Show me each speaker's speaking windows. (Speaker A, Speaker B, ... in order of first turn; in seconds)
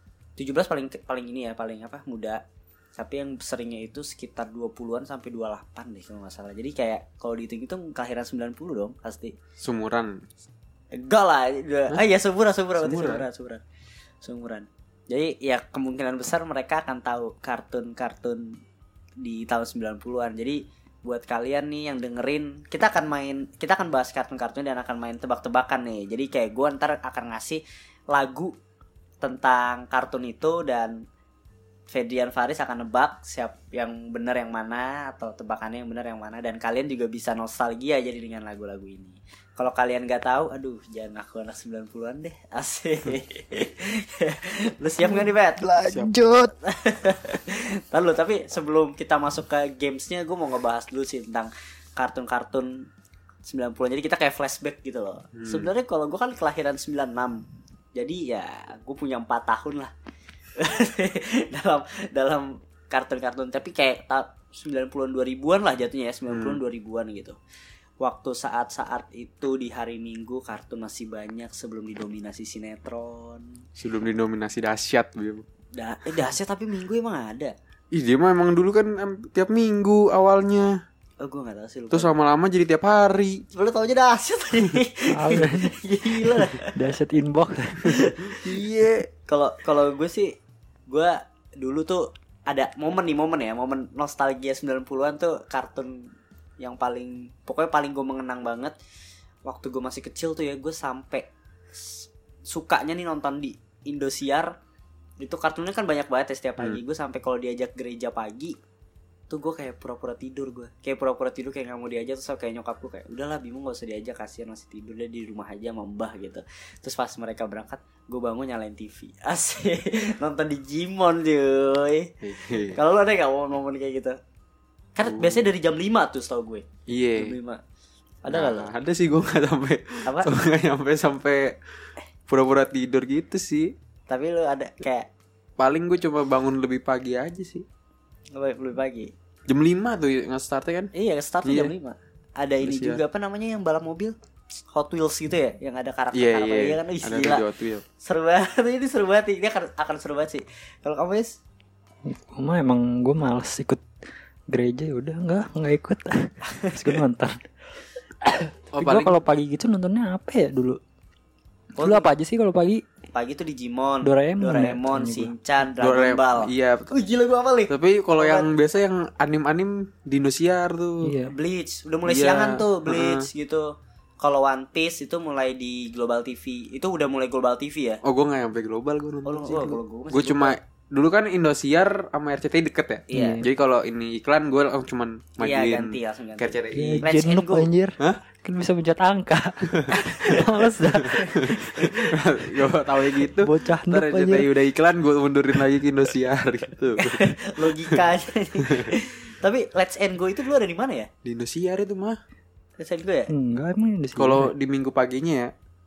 Speaker A: 0.4-2.4, 3.0-9.3, 10.9-13.6, 14.2-18.6, 19.2-28.5, 29.2-30.9, 31.9-45.6, 46.6-52.9, 53.4-57.4, 57.9-59.9, 60.5-67.4, 68.0-73.5, 75.7-77.5, 81.2-82.1, 83.5-86.8, 87.8-90.3, 90.9-96.1, 96.6-98.7, 99.4-104.5, 105.2-108.5, 109.3-122.1, 122.7-124.2, 125.0-127.6, 128.2-128.7, 134.1-135.1, 138.3-139.1, 140.9-144.1, 144.7-147.4, 148.0-151.4, 161.8-162.1, 163.1-168.5, 171.3-178.0, 179.2-180.6, 183.1-183.4, 185.4-187.7, 197.0-201.1, 202.8-203.3
Speaker B: 9.6-10.2, 12.8-13.2, 45.9-46.1, 55.3-55.7, 66.3-66.6, 73.8-75.4, 77.9-80.8, 81.9-83.5, 88.4-88.9, 122.2-122.8, 125.0-125.5, 126.9-127.3, 128.3-131.6, 132.3-133.7, 135.6-137.6, 139.5-140.9, 141.4-141.7, 142.6-143.0, 146.1-147.8, 158.7-159.2, 165.8-166.9, 167.7-171.1, 172.1-173.3, 178.0-187.1, 189.7-190.0, 191.0-198.0, 198.7-198.9, 201.2-202.2, 204.2-205.5
Speaker C: 45.1-46.5, 85.1-85.8, 86.3-88.0, 152.1-153.8, 154.5-157.3, 158.3-160.8, 161.8-162.8, 164.0-165.3, 171.0-171.3, 183.1-183.4, 186.7-191.6, 193.4-194.5, 203.3-204.5